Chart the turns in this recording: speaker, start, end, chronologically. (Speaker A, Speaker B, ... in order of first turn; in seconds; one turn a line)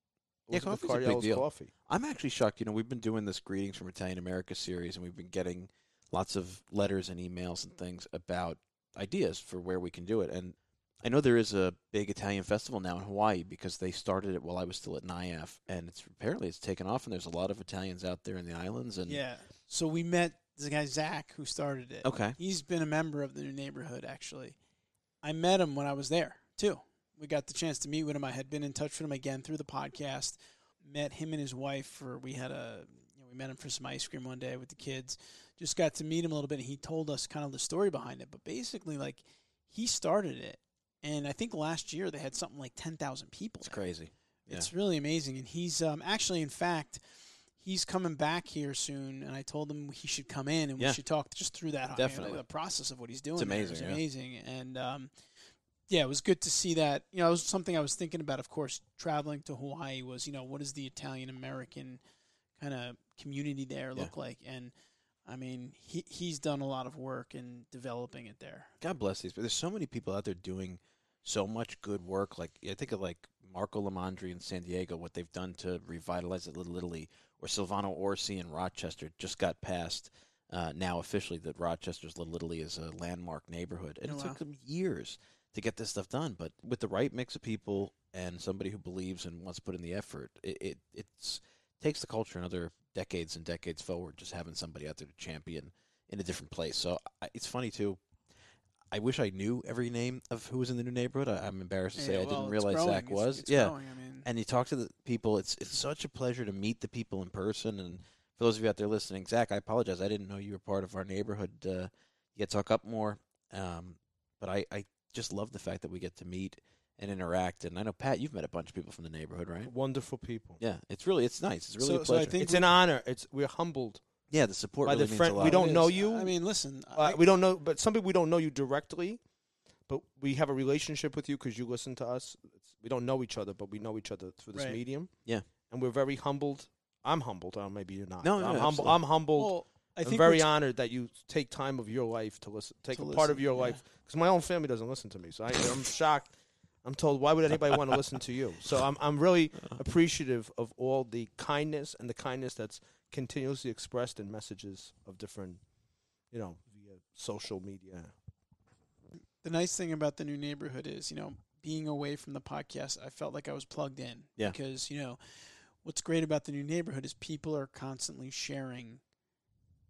Speaker A: 0.5-1.7
Speaker B: 0.5-19.2
Speaker C: 19.1-24.6
Speaker B: 22.0-22.4
Speaker C: 25.2-43.8
Speaker B: 43.6-44.7
Speaker C: 44.5-47.0
Speaker C: 47.6-55.1
Speaker B: 51.9-52.4
Speaker B: 53.4-54.0
Speaker C: 55.9-62.0
Speaker C: 62.6-64.7
Speaker C: 65.3-68.7
Speaker B: 68.8-98.0
Speaker C: 84.1-84.4
Speaker B: 98.9-119.7
Speaker C: 102.0-104.3
Speaker A: 119.7-120.6
Speaker B: 120.6-122.4
Speaker C: 121.8-122.7
Speaker A: 122.4-124.0
Speaker B: 124.3-125.7
Speaker A: 124.8-126.3
Speaker C: 125.4-127.2
Speaker A: 127.0-129.2
Speaker A: 129.9-135.1
Speaker C: 134.5-134.8
Speaker A: 135.7-146.3
Speaker B: 138.2-139.0
Speaker C: 139.4-140.5
Speaker C: 142.9-143.8
Speaker A: 146.8-155.6
Speaker A: 156.3-158.1
Speaker C: 159.4-169.0